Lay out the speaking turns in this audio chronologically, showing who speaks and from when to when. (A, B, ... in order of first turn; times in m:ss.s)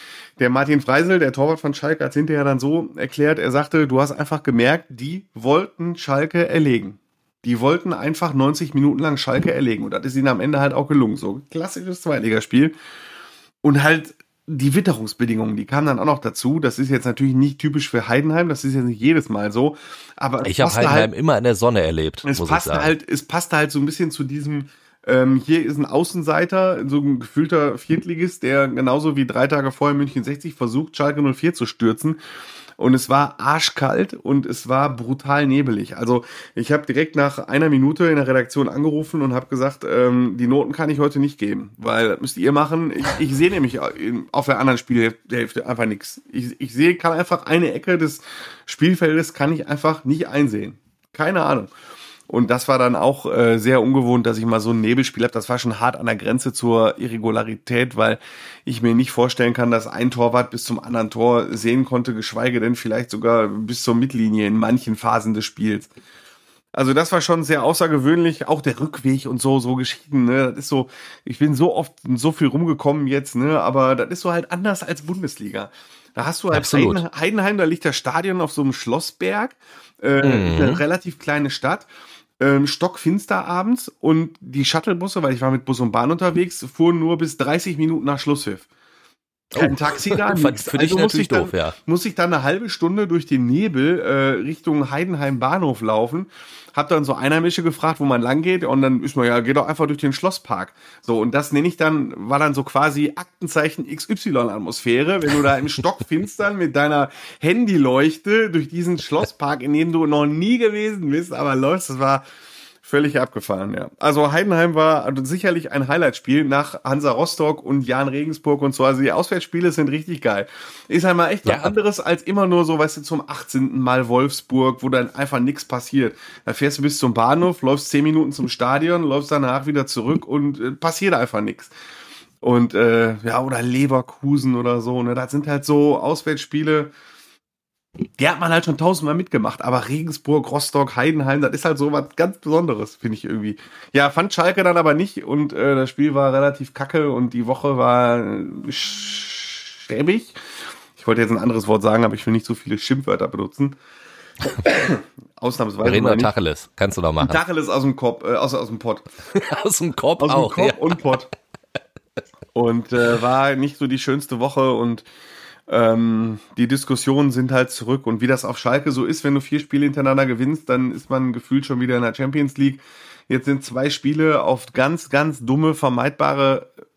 0:00.4-0:12.7 A
0:13.6-0:21.1 A
0:20.4-0:22.9 B
0:22.3-0:32.2 A
0:32.8-0:51.7 A
0:52.3-1:05.9 A
1:06.7-1:21.8 A
1:16.5-1:17.0 B
1:20.2-1:20.8 B
1:22.4-1:28.6 A
1:29.5-1:52.2 A
1:29.5-1:31.8 B
1:52.8-2:11.7 A
2:01.4-2:01.7 B
2:12.4-2:16.9 A
2:18.2-2:30.4 A
2:31.0-2:33.8 A
2:34.6-2:36.3 A
2:35.8-2:37.4 B
2:37.2-2:39.1 A
2:39.3-2:41.0 B
2:40.2-2:41.3 A
2:42.5-2:45.0 A
2:45.7-2:56.7 A